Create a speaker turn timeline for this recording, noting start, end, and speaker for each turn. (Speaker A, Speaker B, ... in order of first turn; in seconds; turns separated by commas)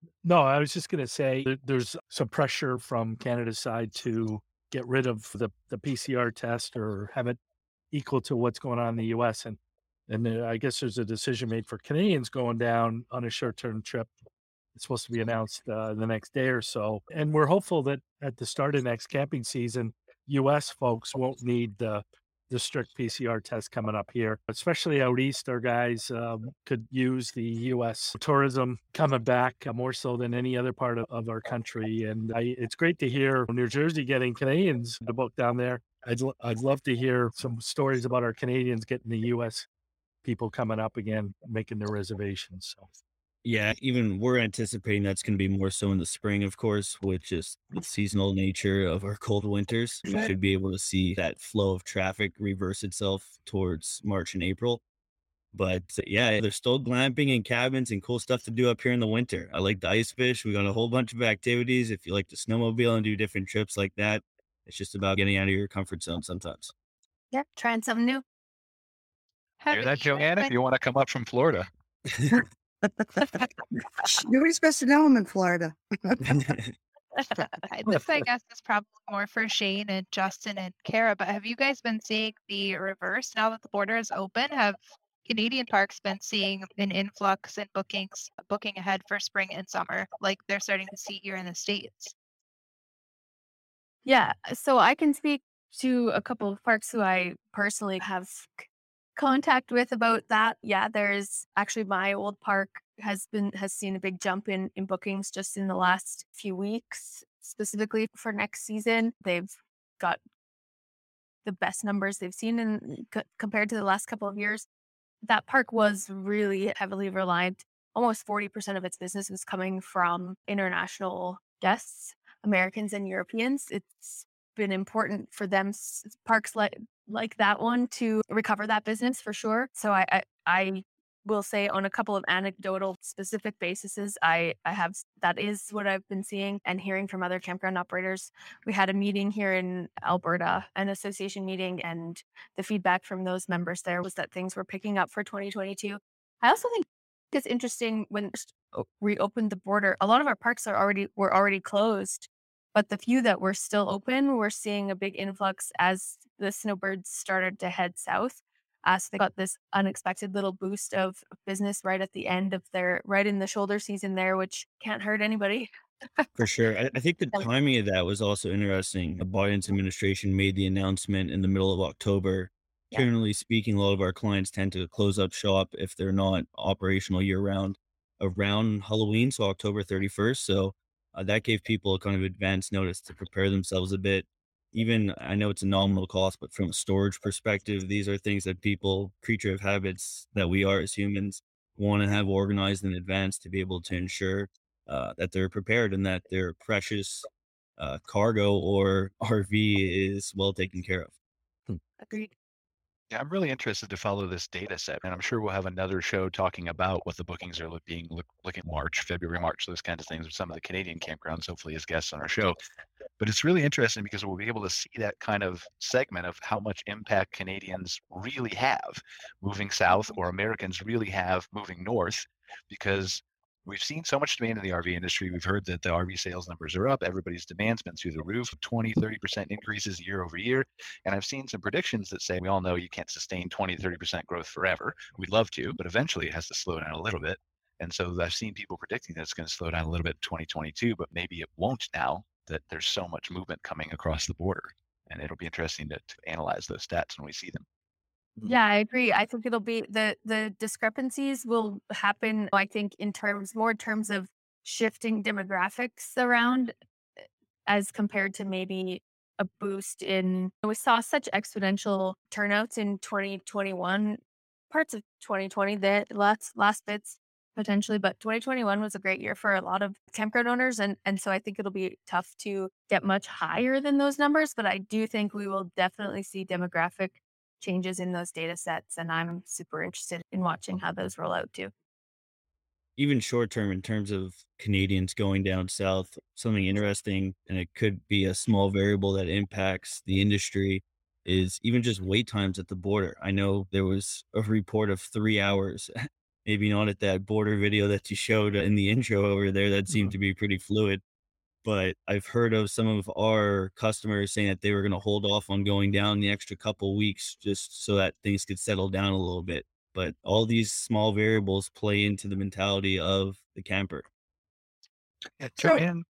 Speaker A: 0.2-7.4, Speaker A: 7.9-14.1, Speaker A: 14.7-39.6, Speaker A: 40.2-42.9, Speaker B: 43.4-54.8, Speaker B: 55.5-66.7, Speaker C: 67.3-68.2, Speaker D: 69.6-70.5, Speaker E: 69.7-71.7, Speaker F: 72.3-76.5, Speaker B: 76.3-76.6, Speaker D: 77.7-92.1, Speaker C: 94.0-110.2, Speaker C: 111.4-114.6, Speaker C: 115.2-166.2, Speaker B: 166.4-197.3, Speaker B: 197.8-201.1, Speaker C: 202.0-202.3, Speaker E: 203.1-212.6, Speaker E: 213.2-247.6, Speaker C: 248.4-256.7, Speaker C: 257.7-264.2, Speaker C: 264.7-281.7, Speaker B: 283.0-295.9, Speaker B: 296.4-301.0, Speaker A: 299.9-300.1, Speaker B: 301.6-314.1, Speaker E: 315.4-316.0, Speaker F: 315.6-315.8